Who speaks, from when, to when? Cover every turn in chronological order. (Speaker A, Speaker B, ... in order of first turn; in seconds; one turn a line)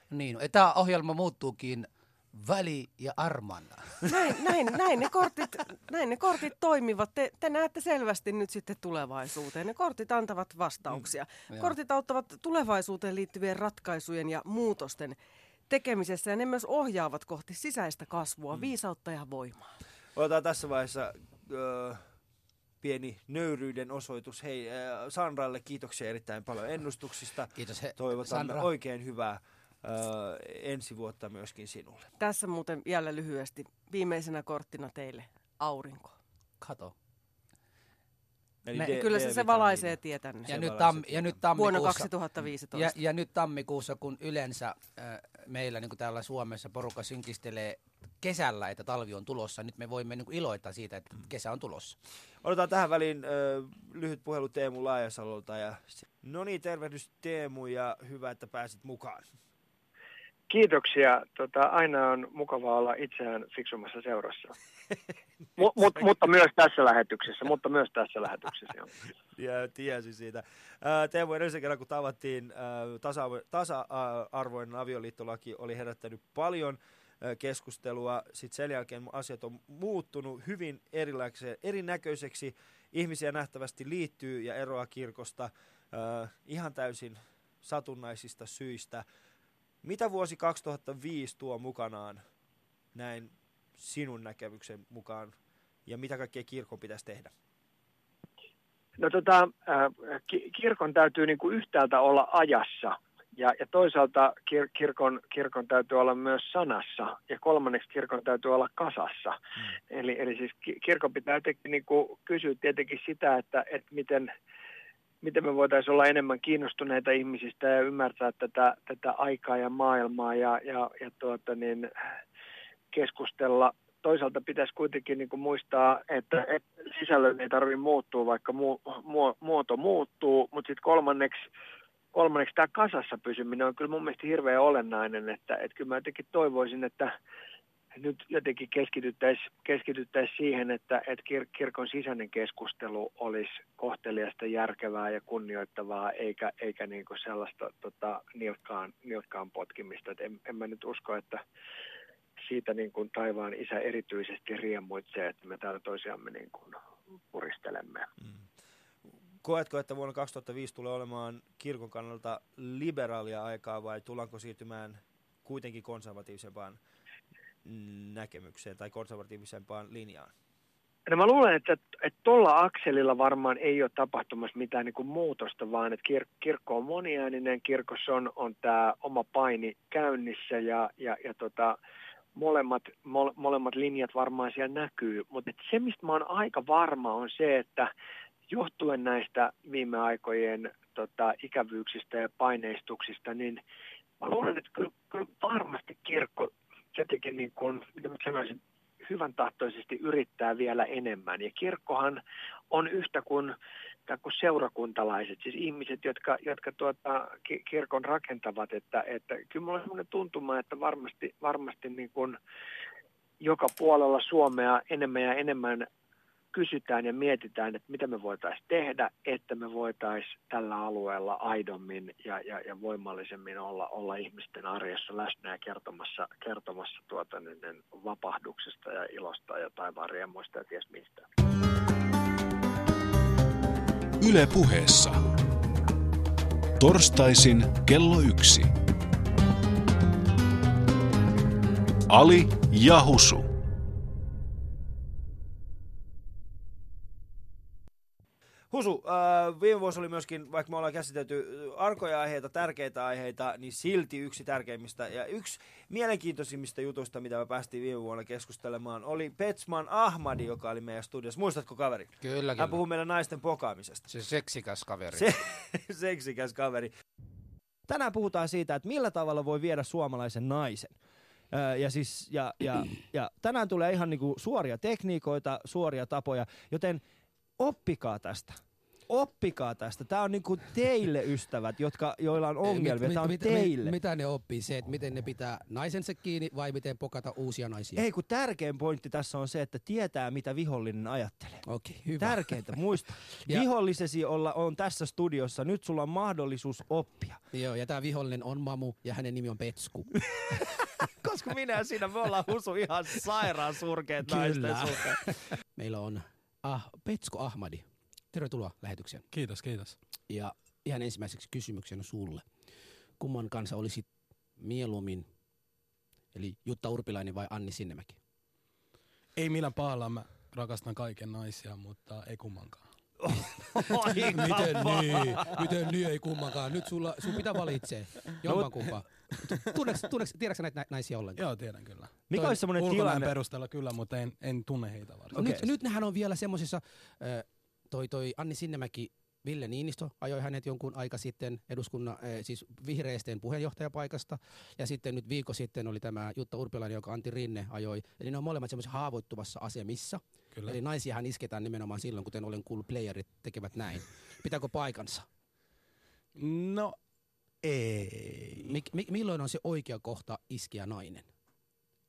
Speaker A: 0.1-3.9
Speaker B: 4.1-15.2
Speaker B: 15.7-19.7
Speaker C: 20.1-22.0
Speaker C: 22.8-32.1
Speaker A: 27.5-28.7
Speaker B: 32.2-36.1
Speaker A: 36.6-36.9
Speaker C: 38.6-41.4
Speaker B: 38.8-40.6
Speaker A: 40.5-42.1
Speaker B: 41.5-42.9
Speaker A: 42.7-52.0
Speaker C: 52.4-59.3
Speaker D: 60.5-64.5
Speaker D: 65.6-68.9
Speaker C: 69.3-89.0
Speaker C: 89.8-92.2
Speaker C: 92.9-97.3
Speaker D: 99.0-114.3
Speaker D: 115.2-121.9
Speaker D: 122.9-131.5
Speaker D: 132.1-137.1
Speaker D: 137.9-151.4
Speaker D: 152.4-156.8
Speaker D: 157.3-158.1
Speaker C: 158.2-158.5
Speaker C: 159.4-166.8
Speaker C: 167.6-170.3
Speaker D: 171.1-181.8
Speaker D: 182.3-187.9
Speaker D: 188.5-193.6
Speaker D: 194.2-203.5
Speaker D: 204.1-212.4
Speaker D: 213.4-215.9
Speaker D: 216.5-231.2
Speaker E: 234.2-235.2
Speaker E: 236.8-238.7
Speaker E: 242.1-243.5
Speaker C: 248.7-264.1
Speaker A: 262.2-262.8
Speaker A: 264.1-265.2
Speaker C: 265.1-266.9
Speaker C: 267.9-270.9
Speaker C: 271.5-277.0
Speaker C: 277.6-283.9
Speaker A: 282.6-288.0
Speaker C: 287.9-291.7
Speaker A: 291.6-292.8
Speaker C: 292.2-297.4
Speaker A: 297.5-300.5
Speaker C: 301.0-305.2
Speaker A: 304.2-309.2
Speaker F: 309.3-309.9
Speaker A: 310.3-312.4
Speaker A: 313.2-314.1
Speaker A: 314.6-315.3
Speaker A: 316.3-318.2
Speaker F: 319.4-322.9
Speaker C: 323.2-325.6
Speaker F: 323.8-326.4
Speaker A: 325.4-331.4
Speaker F: 328.4-328.9
Speaker F: 331.4-335.7
Speaker C: 332.3-333.3
Speaker A: 332.3-332.6
Speaker A: 335.3-355.3
Speaker C: 335.4-335.6
Speaker F: 350.5-350.8
Speaker F: 356.4-357.0
Speaker A: 357.6-361.3